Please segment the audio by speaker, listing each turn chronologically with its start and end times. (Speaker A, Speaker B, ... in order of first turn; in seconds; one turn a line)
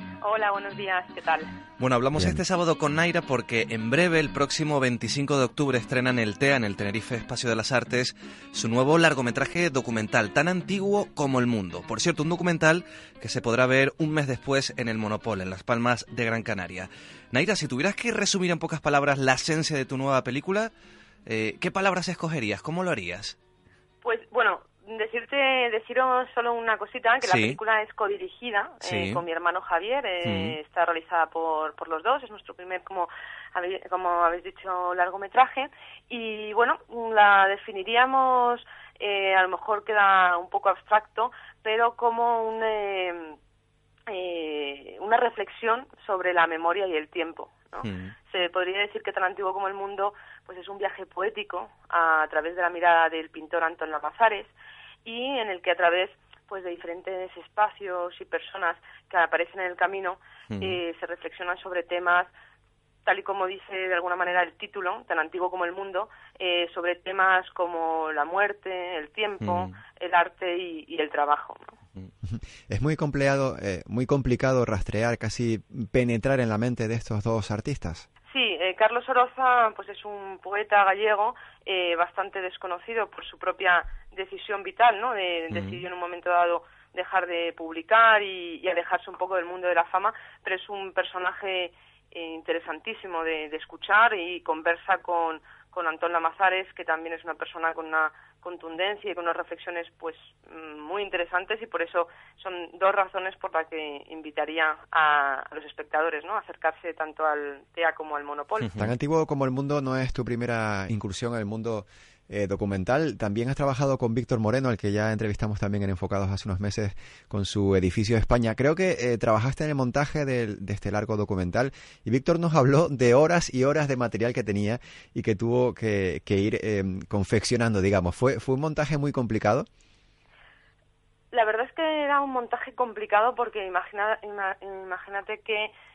Speaker A: 0.2-1.5
Speaker B: 1.8-20.7
Speaker C: 2.1-2.4
Speaker B: 21.2-23.4
Speaker A: 24.0-43.4
Speaker B: 27.2-27.6
Speaker B: 28.8-29.2
Speaker B: 30.2-30.6
Speaker A: 44.1-54.5
Speaker B: 47.8-48.1
Speaker A: 55.0-62.3
Speaker B: 60.5-60.8
Speaker A: 63.0-71.7
Speaker B: 69.4-69.8
Speaker C: 72.2-78.0
Speaker A: 78.3-108.7
Speaker B: 85.5-85.8
Speaker B: 108.6-108.9
Speaker C: 108.8-129.7
Speaker A: 131.3-135.7